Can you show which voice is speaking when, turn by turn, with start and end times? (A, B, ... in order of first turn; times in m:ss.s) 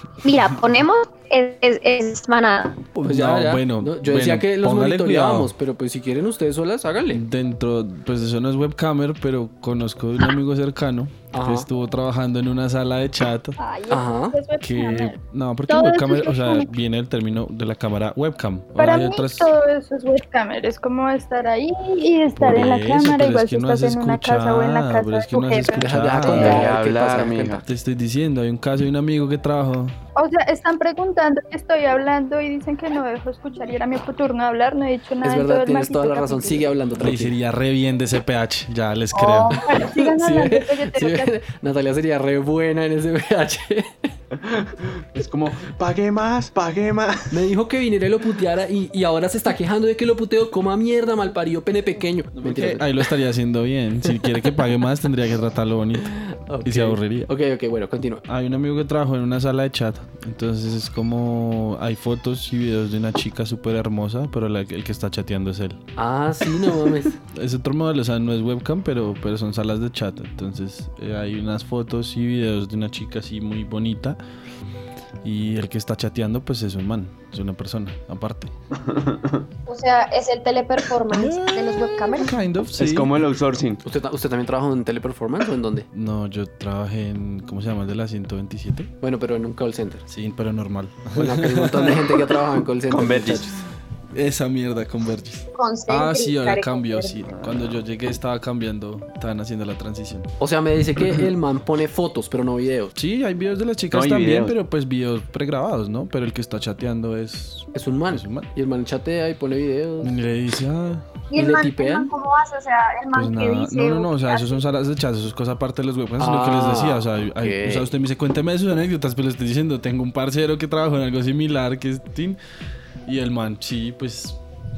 0:00.2-0:02.9 A
0:03.0-0:05.5 B
0:03.0-0:07.2 C
0:07.1-0:13.6 B
0:11.3-0:11.6 C
0:13.6-0:15.2 D
0:13.9-0:14.4 C
0:14.6-0:19.5 B
0:15.7-0:16.7 D
0:18.8-0:25.9 D
0:22.3-0:26.7 B
0:25.8-0:27.6 C
0:26.2-0:27.6 E
0:27.6-0:30.0 B
0:30.2-0:36.7 D
0:35.2-0:37.3 C
0:37.0-0:39.6 B
0:39.1-0:41.4 D
0:39.5-0:44.0 C
0:44.3-0:47.4 E
0:47.3-0:53.1 C
0:52.4-0:56.1 B
0:56.1-0:58.2 C
0:56.6-0:57.3 B
0:58.3-1:05.8 B
1:06.0-1:07.2 C
1:07.3-1:14.2 B
1:15.2-1:18.5 B
1:18.7-1:19.4 E
1:19.7-1:22.3 A
1:21.1-1:23.1 B
1:22.8-1:23.8 E
1:23.8-1:25.8 C
1:25.9-1:28.9 B
1:29.0-1:30.1 C
1:30.1-1:32.3 B
1:31.1-1:33.6 C
1:32.9-1:33.4 E
1:34.1-1:40.3 B
1:35.5-1:37.2 A
1:40.4-1:42.9 C
1:43.0-1:48.5 B
1:43.9-1:44.5 E
1:47.7-1:50.1 C
1:50.0-1:51.1 B
1:51.3-1:54.6 A
1:51.4-1:52.1 C
1:53.1-2:02.4 B
1:56.2-1:57.9 C
2:03.0-2:04.4 B